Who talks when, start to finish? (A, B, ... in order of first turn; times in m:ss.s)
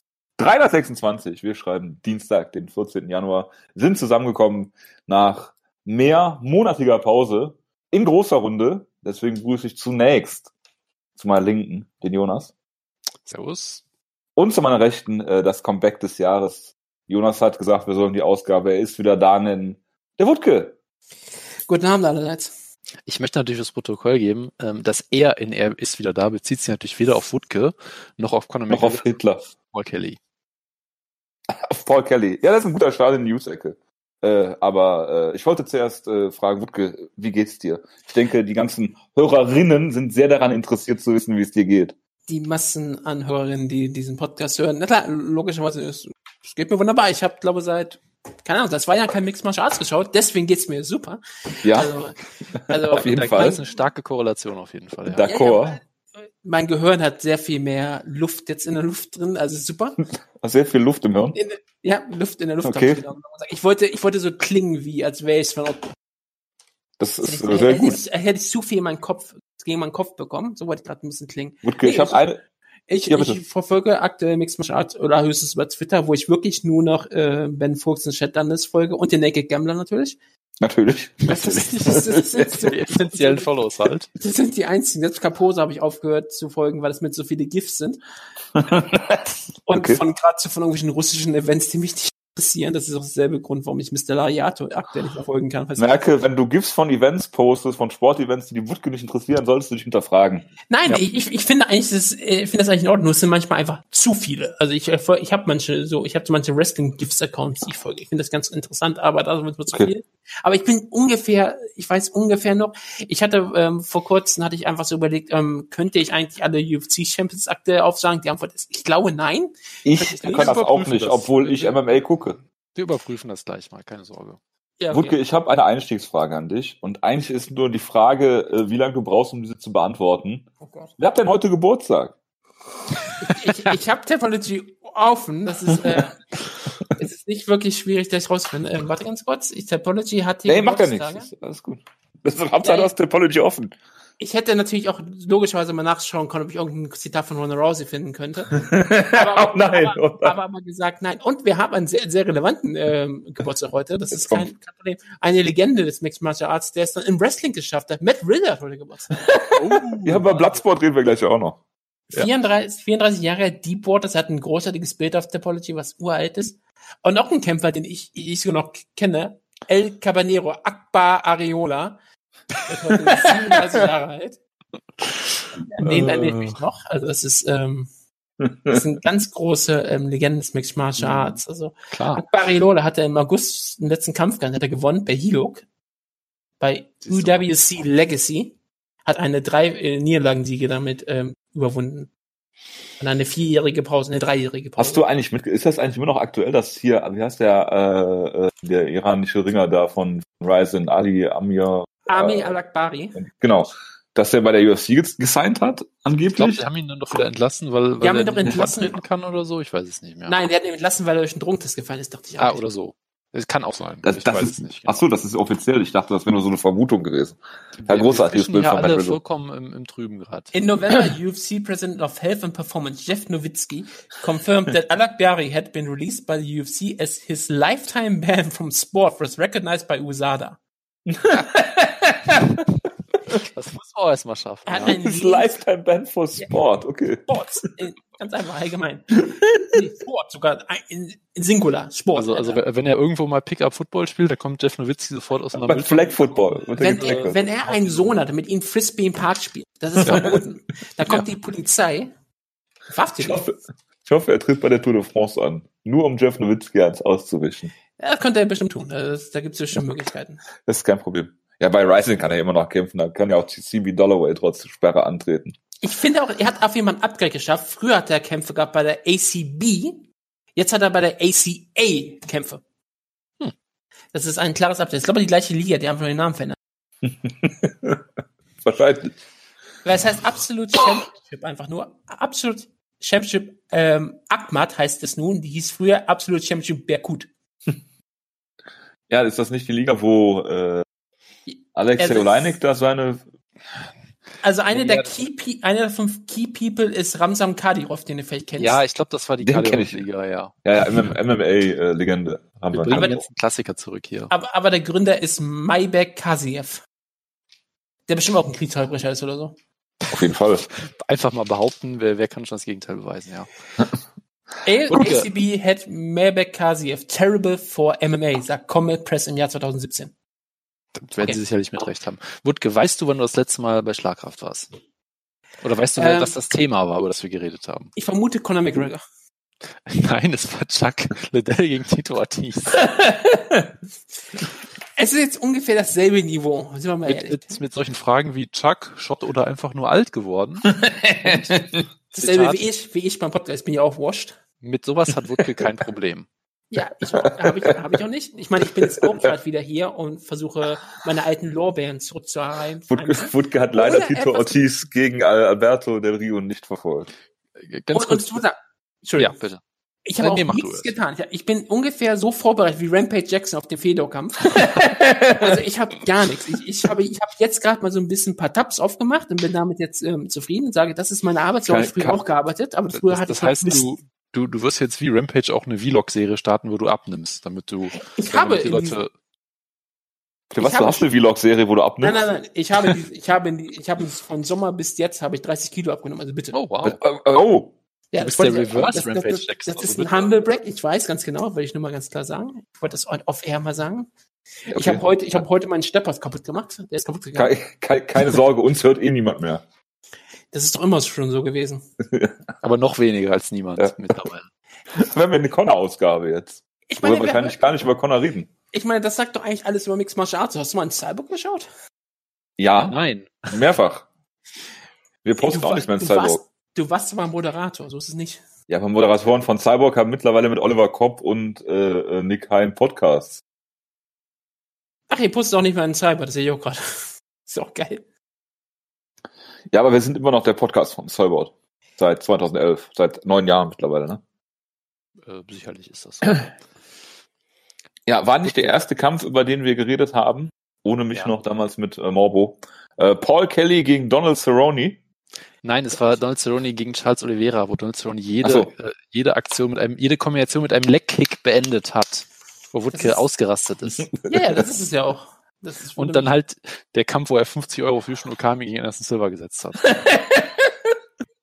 0:00.4-0:10.5 A
0:11.2-0:12.5 A
0:13.3-0:13.8 B
0:14.4-0:20.8 A
0:21.7-0:22.5 C
0:23.1-0:30.2 B
0:28.7-0:29.5 A
0:31.5-0:42.0 A
0:42.3-0:53.6 C
0:51.6-0:51.9 A
0:52.6-0:53.6 A
0:52.9-0:55.3 B
0:55.1-0:55.8 A
0:55.2-0:55.8 C
0:56.4-1:00.0 C
1:00.4-1:01.4 A
1:01.3-1:05.9 C
1:02.6-1:03.0 A
1:07.0-1:08.0 A
1:07.2-1:12.2 C
1:11.6-1:12.4 A
1:12.9-1:20.2 C
1:13.1-1:13.4 A
1:20.6-1:22.1 A
1:21.3-1:23.5 C
1:21.3-1:24.1 B
1:24.2-1:28.0 C
1:28.6-1:30.0 A
1:29.7-1:36.0 C
1:35.8-1:41.0 A
1:40.7-2:00.6 C
1:59.8-2:02.4 A
2:00.1-2:01.9 B
2:02.8-2:04.4 B
2:04.8-2:05.2 C
2:04.9-2:10.5 A
2:10.6-2:10.9 C
2:11.0-2:12.2 A
2:13.2-2:16.2 C
2:17.0-2:21.3 C
2:20.5-2:23.8 A
2:22.6-2:22.9 C
2:24.2-2:39.3 C
2:28.5-2:30.4 A
2:34.1-2:34.5 A
2:39.3-2:41.6 A
2:39.6-2:40.6 B
2:42.1-2:52.0 C
2:52.7-2:54.4 C
2:55.6-2:57.9 C
2:55.8-2:56.6 B
2:58.5-2:58.7 A
2:58.7-3:05.6 C
3:01.0-3:01.4 B
3:01.9-3:02.2 B
3:06.6-3:12.1 C
3:07.1-3:07.4 B
3:13.0-3:15.0 C
3:14.8-3:22.6 A
3:22.1-3:23.2 C
3:23.2-3:26.6 A
3:26.4-3:30.4 B
3:28.0-3:29.0 C
3:30.3-3:32.6 C
3:32.4-3:35.0 B
3:34.0-3:39.2 A
3:37.8-3:40.5 B
3:40.5-3:50.6 C
3:51.1-3:52.6 A
3:53.4-3:55.0 B
3:54.7-3:55.6 C
3:54.8-3:57.3 A
3:57.3-4:02.6 C
3:59.2-3:59.7 A
4:02.2-4:08.1 B
4:05.6-4:07.4 A
4:06.8-4:12.1 C
4:10.0-4:10.3 B
4:10.0-4:10.4 A
4:12.9-4:13.4 C
4:13.2-4:17.7 A
4:18.0-4:20.4 C
4:20.6-4:25.6 A
4:25.8-4:32.6 C
4:34.1-4:36.6 C
4:37.1-4:38.0 A
4:38.6-4:39.2 A
4:39.8-4:47.3 C
4:49.1-4:50.8 A
4:51.5-4:52.6 C
4:51.8-4:53.2 A
4:54.4-4:58.8 C
4:54.7-4:55.1 B
4:58.6-5:00.5 B
4:59.4-5:00.0 A
5:00.6-5:03.2 A
5:02.7-5:04.3 B
5:02.9-5:03.2 C
5:04.3-5:06.8 C
5:08.1-5:09.6 C
5:10.1-5:10.7 A
5:10.8-5:13.5 B
5:14.6-5:20.1 C
5:14.9-5:15.3 B
5:21.0-5:24.7 B
5:25.6-5:27.9 B
5:26.0-5:26.4 C
5:28.0-5:29.0 C
5:29.8-5:32.9 B
5:32.9-5:33.6 A
5:35.0-5:37.6 C
5:37.1-5:42.6 B
5:40.7-5:41.8 A
5:42.2-5:44.4 C
5:44.6-5:46.3 B
5:46.7-5:54.7 C
5:47.2-5:47.7 A
5:52.9-5:57.1 A
5:57.6-5:58.4 B
5:57.9-5:59.4 C
5:59.2-5:59.6 B
6:00.1-6:04.8 C
6:00.2-6:00.9 B
6:04.5-6:05.5 A
6:05.3-6:13.9 C
6:11.7-6:12.2 A
6:12.9-6:19.1 B
6:18.2-6:19.0 C
6:20.5-6:22.2 A
6:20.6-6:21.1 C
6:22.0-6:26.6 C
6:26.5-6:27.0 B
6:26.8-6:27.7 A
6:28.1-6:34.1 C
6:28.2-6:30.3 B
6:34.6-6:37.6 C
6:34.7-6:35.4 A
6:37.4-6:39.6 A
6:40.5-6:41.9 C
6:42.6-6:44.5 B
6:44.9-6:48.5 A
6:46.9-6:47.8 C
6:48.7-6:51.7 C
6:52.6-6:53.0 A
6:52.9-6:53.5 B
6:53.5-6:54.1 A
6:55.2-6:56.4 A
6:55.4-6:58.4 C
6:58.7-7:03.4 A
7:05.1-7:08.0 C
7:09.7-7:14.2 A
7:15.2-7:16.5 B
7:18.1-7:25.0 A
7:25.6-7:34.1 B
7:28.4-7:28.7 A
7:32.9-7:33.2 C
7:34.2-7:36.3 C
7:36.0-7:39.9 B
7:39.8-7:40.7 A